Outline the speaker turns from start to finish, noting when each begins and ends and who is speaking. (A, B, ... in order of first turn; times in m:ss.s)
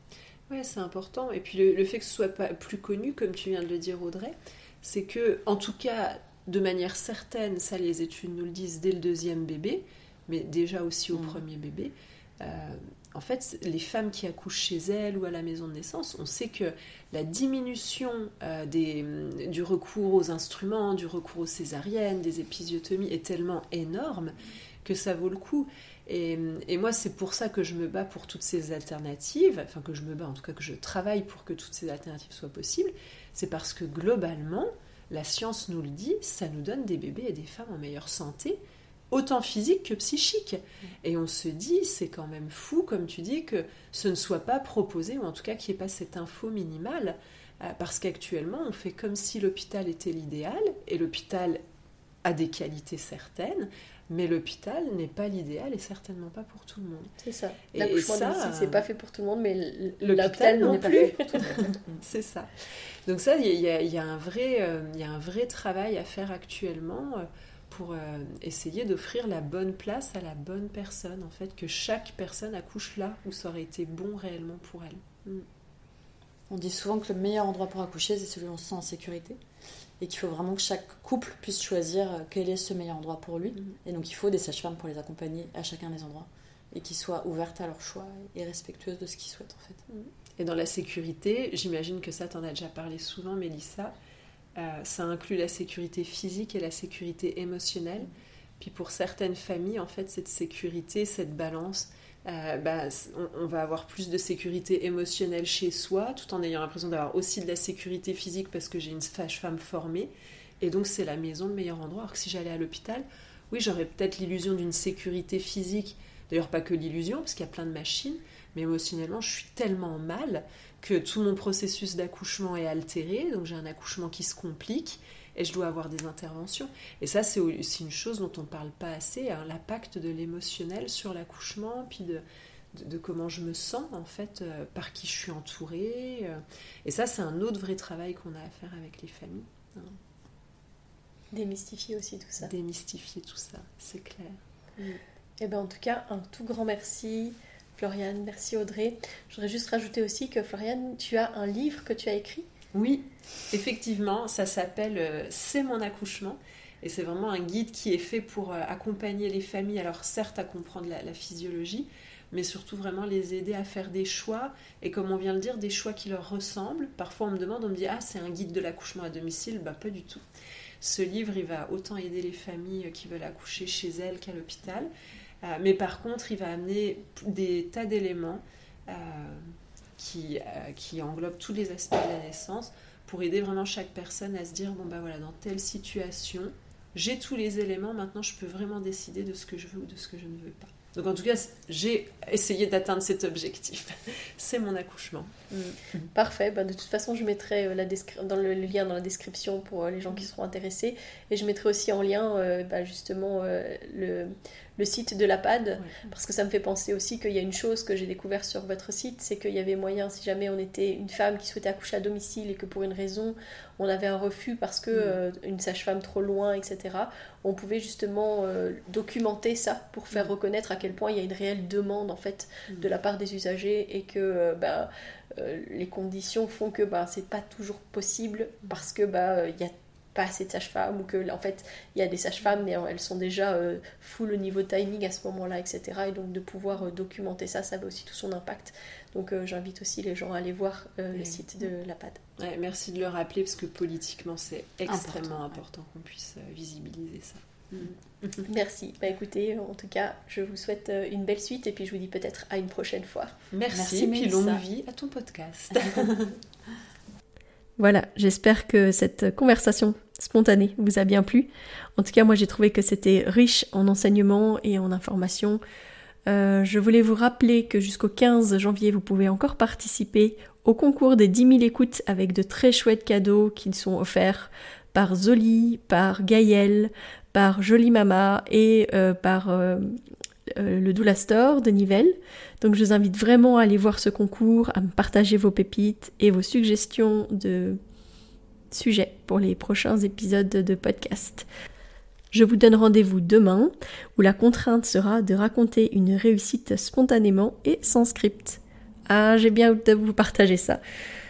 0:00.5-0:38.6 A
0:39.1-0:51.6 A
0:52.2-0:57.1 A
0:57.2-1:01.4 B
0:57.7-0:58.8 A
1:00.0-1:15.4 A
1:00.6-1:01.8 C
1:16.5-1:19.4 C
1:20.0-1:29.8 C
1:30.4-1:33.9 A
1:34.5-2:12.2 A
2:12.7-2:20.0 A
2:21.3-2:22.5 B
2:22.4-2:25.0 A
2:25.4-2:32.5 B
2:32.7-2:50.2 A
2:50.8-2:54.9 A
2:55.4-3:16.0 A
3:16.1-4:02.2 B
3:25.8-3:26.0 A
4:01.2-4:01.4 A
4:02.4-4:08.4 A
4:04.9-4:05.6 C
4:08.4-4:13.3 B
4:13.5-4:16.4 A
4:13.7-4:14.6 C
4:17.8-4:25.6 B
4:26.3-4:47.8 B
4:48.7-4:51.5 B
4:52.3-5:00.8 B